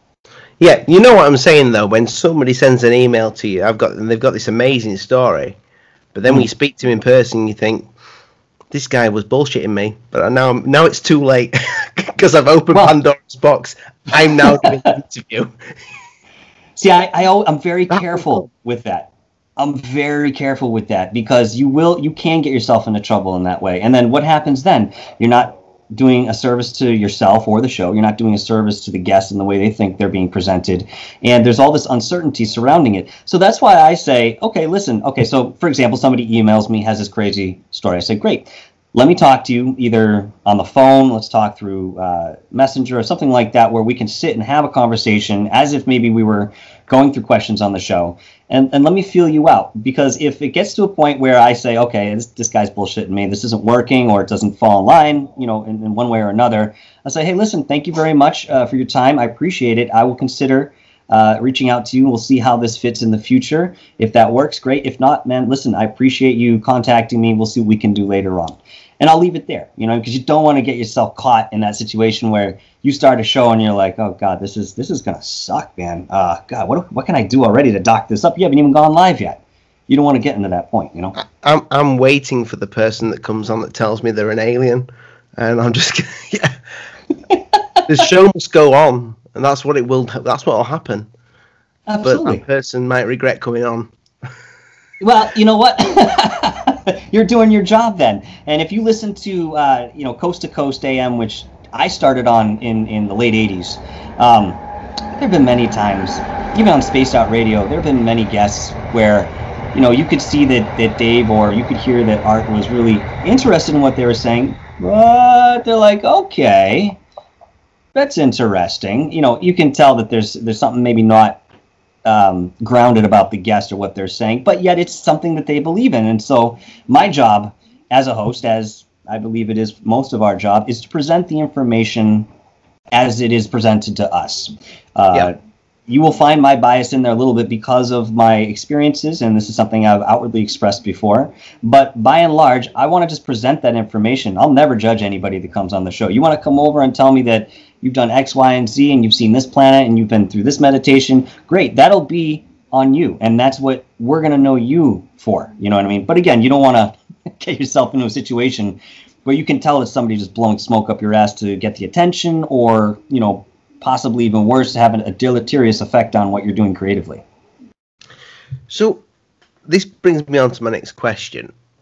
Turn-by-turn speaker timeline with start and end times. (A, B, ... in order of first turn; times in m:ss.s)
0:00.6-0:05.6 A
0:06.1-0:07.9 A
0:08.7-0:15.6 A
0:14.3-0:14.8 B
0:16.8-1:21.2 B
0:17.9-0:18.4 A
1:21.2-1:26.6 A
1:27.9-1:31.1 A
1:31.9-1:32.4 B
1:32.0-1:33.9 A
1:35.0-1:44.6 B
1:45.1-1:57.0 B
1:58.0-2:01.4 B
2:02.0-2:12.3 B
2:12.9-2:15.4 B
2:15.9-2:47.2 B
2:48.7-2:49.0 A
2:49.7-2:51.5 A